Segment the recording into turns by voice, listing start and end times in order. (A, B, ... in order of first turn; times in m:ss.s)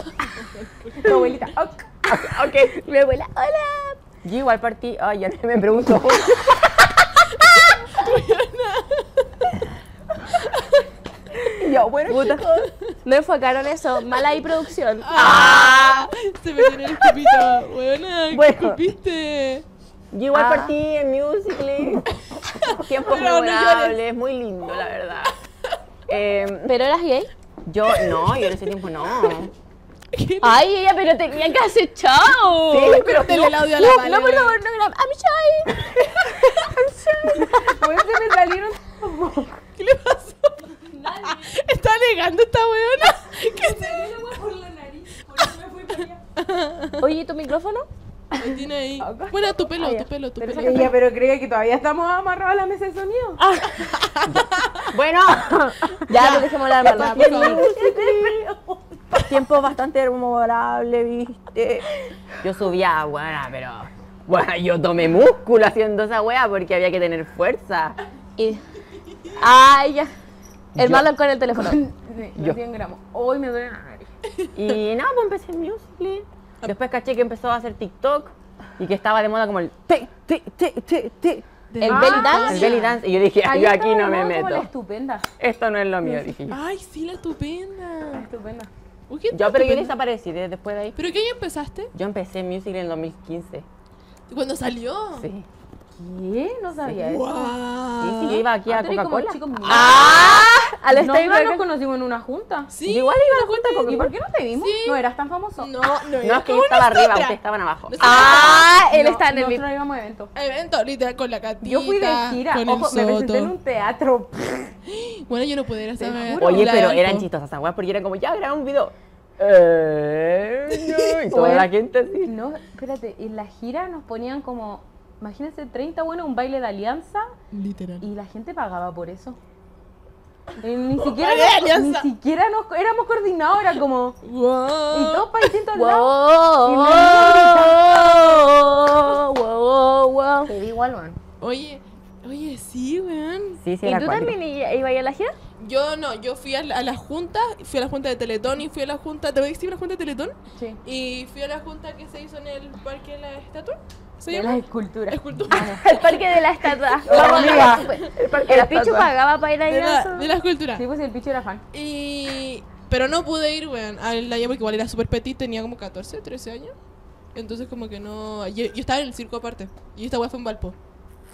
0:00.2-0:01.3 A
0:01.0-0:01.9 B
0:02.1-0:02.8 C
0:02.7-0:04.0 D
0:04.2-0:07.2 C
0:07.4-0:09.5 A
0:10.3-0:10.8 A
0:11.6-0:12.7 C
0:12.1-0:12.4 D
0:12.5-0:12.9 A
0:13.0-0:15.4 D
0:15.0-0:19.6 A
0:15.1-0:16.1 C
0:18.3-0:18.8 C
0:20.1-0:22.1 C
0:20.3-0:20.7 D
0:22.4-0:24.0 A
0:22.6-0:25.3 C
0:25.3-0:25.7 A
0:26.1-0:26.8 C
0:26.6-0:27.3 D
0:27.6-0:29.5 C
0:28.0-0:28.6 A
0:30.1-0:30.7 A
0:30.4-0:33.0 D
0:32.7-0:33.6 C
0:32.7-0:34.6 A
0:33.8-0:37.7 D
0:36.5-0:36.7 A
0:37.3-0:39.6 B
0:39.8-0:44.4 A
0:43.2-0:46.2 B
0:46.4-0:47.1 A
0:47.0-0:47.9 D
0:48.4-0:49.8 B
0:48.4-0:50.9 A
0:49.8-0:50.0 D
0:50.4-0:53.4 B
0:50.6-0:50.9 D
0:53.4-0:54.9 A
0:54.3-0:55.7 C
0:55.4-0:55.8 B
0:55.9-0:57.6 A
0:56.1-0:57.7 D
0:56.2-0:58.4 C
0:57.3-0:59.4 B
0:59.2-1:01.8 C
1:02.4-1:08.0 C
1:08.4-1:08.6 D
1:09.0-1:09.4 A
1:09.4-1:10.1 D
1:10.7-1:11.8 D
1:10.8-1:11.1 C
1:11.5-1:14.1 B
1:14.5-1:21.4 C
1:21.7-1:22.9 A
1:21.8-1:22.8 D
1:21.8-1:22.8 B
1:22.4-1:24.7 C
1:23.4-1:25.2 B
1:25.4-1:26.6 C
1:26.5-1:28.3 A
1:28.1-1:28.7 B
1:29.1-1:29.9 A
1:29.3-1:31.0 C
1:31.0-1:31.9 A
1:31.9-1:33.6 C
1:34.3-1:35.3 A
1:35.1-1:35.4 C
1:36.0-1:37.5 B
1:36.9-1:38.4 A
1:38.0-1:40.5 C
1:38.6-1:40.1 B
1:39.6-1:41.6 D
1:40.9-1:42.7 B
1:42.7-1:44.0 A
1:42.8-1:44.1 C
1:43.8-1:45.7 B
1:44.6-1:45.0 A
1:45.6-1:48.7 A
1:46.2-1:48.7 C
1:48.0-1:49.6 D
1:48.1-1:50.3 B
1:50.3-1:53.5 A
1:51.6-1:54.8 B
1:54.9-1:57.2 A
1:56.0-1:56.9 B
1:56.4-2:02.3 C
2:01.3-2:01.7 B
2:02.2-2:07.3 B
2:07.5-2:08.0 A
2:08.0-2:09.4 B
2:10.6-2:14.2 B
2:11.0-2:12.1 A
2:14.2-2:15.5 A
2:14.9-2:17.8 B
2:15.7-2:20.5 D
2:20.4-2:21.2 B
2:21.4-2:23.6 A
2:23.6-2:24.3 C
2:23.8-2:25.3 D
2:25.6-2:37.9 A
2:30.5-2:30.8 B
2:34.3-2:35.8 B
2:35.8-2:40.3 D
2:37.1-2:39.1 B
2:37.1-2:39.1 C
2:39.6-2:40.8 A
2:40.7-2:41.6 B
2:41.7-2:46.7 A
2:47.3-2:50.7 A